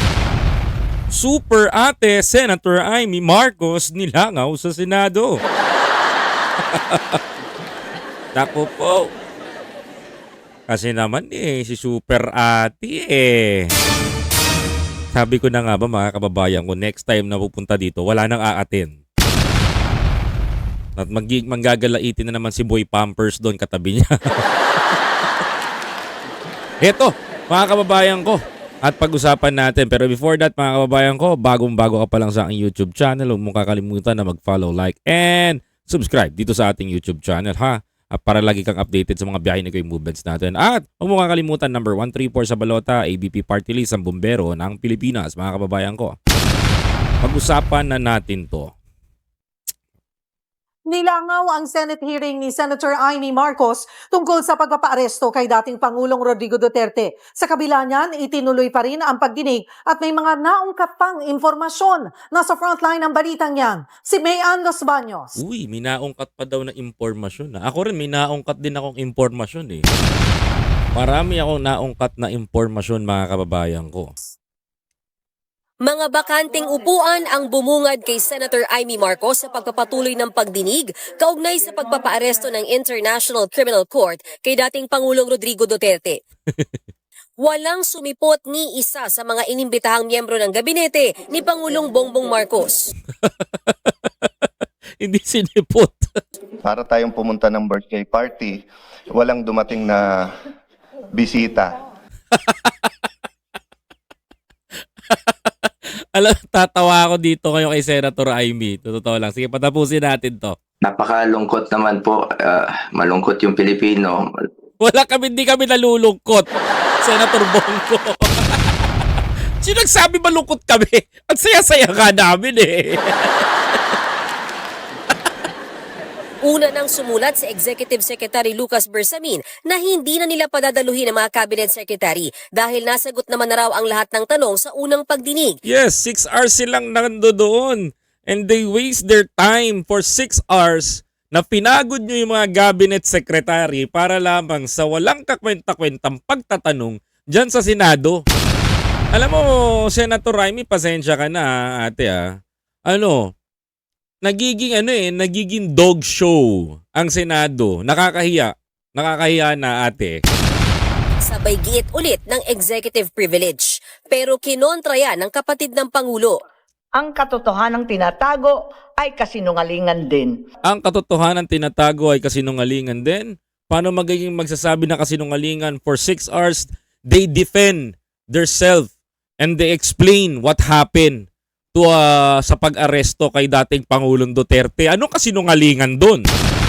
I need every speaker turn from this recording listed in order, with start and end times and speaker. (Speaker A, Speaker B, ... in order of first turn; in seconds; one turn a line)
Speaker A: 1.1-5.4
Speaker A: 6.7-7.2
Speaker A: 8.3-9.1
Speaker A: 10.7-13.7
Speaker A: 15.1-19.0
Speaker A: 21.0-25.0
Speaker A: 26.8-46.1
Speaker A: 47.2-48.7
Speaker B: 50.9-65.4
Speaker A: 65.4-69.8
Speaker A: 70.9-74.1
Speaker C: 75.8-86.2
Speaker C: 87.4-92.9
Speaker A: 93.2-94.5
Speaker A: 95.0-96.2
Speaker D: 96.6-100.3
Speaker D: 101.1-101.8
Speaker A: 102.3-103.1
Speaker A: 105.1-110.5
Speaker E: 110.8-114.2
Speaker A: 114.8-116.5
Speaker A: 117.0-118.7
Speaker A: 119.6-123.5
Speaker C: 126.4-135.6
Speaker A: 135.6-148.2
Speaker A: 149.1-152.2
Speaker A: 152.9-153.3
Speaker A: 154.2-160.2
Speaker C: 161.2-166.3
Speaker F: 166.9-170.3
Speaker A: 170.6-181.2
Speaker A: 181.7-186.3